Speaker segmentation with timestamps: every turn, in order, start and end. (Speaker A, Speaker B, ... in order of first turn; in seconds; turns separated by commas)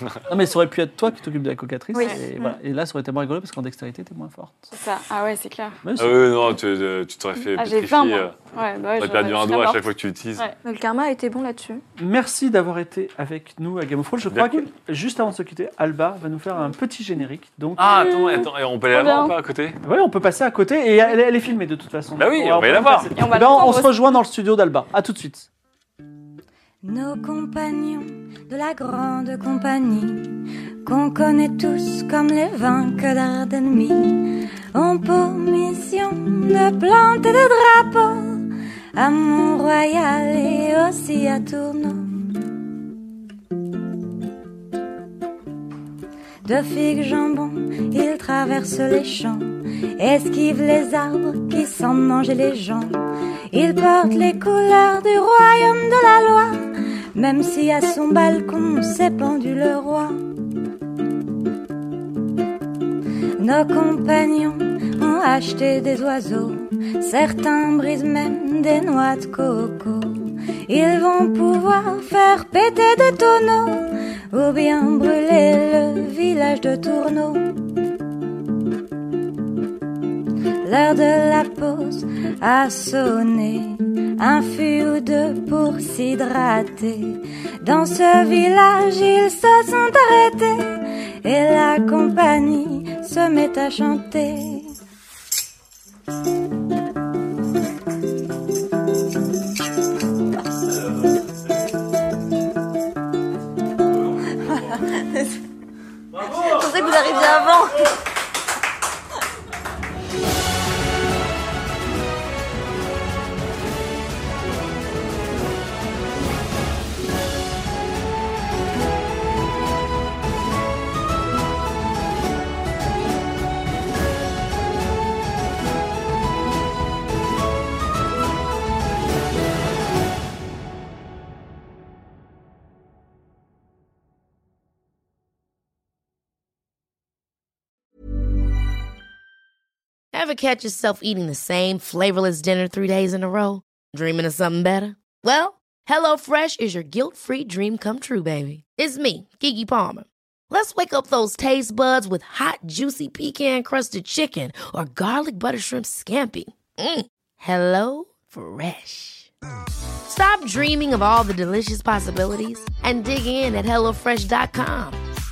Speaker A: 0.3-4.7, Speaker B: 1.9-2.6, Speaker C: 4.7-5.8, Speaker A: 5.8-6.4, Speaker D: 6.0-8.4, Speaker C: 7.6-9.8, Speaker D: 9.0-10.5, Speaker B: 10.6-11.8, Speaker A: 12.0-18.1, Speaker D: 14.3-14.7, Speaker D: 17.8-19.8, Speaker C: 18.2-19.3, Speaker A: 19.8-25.5, Speaker D: 22.2-23.1, Speaker C: 23.2-23.9, Speaker E: 26.8-42.5, Speaker E: 46.4-53.0, Speaker E: 53.5-60.2, Speaker E: 63.4-77.6, Speaker E: 80.7-94.7, Speaker B: 104.7-105.0, Speaker A: 106.1-106.9, Speaker B: 106.3-107.9, Speaker F: 140.1-159.3, Speaker F: 160.1-165.0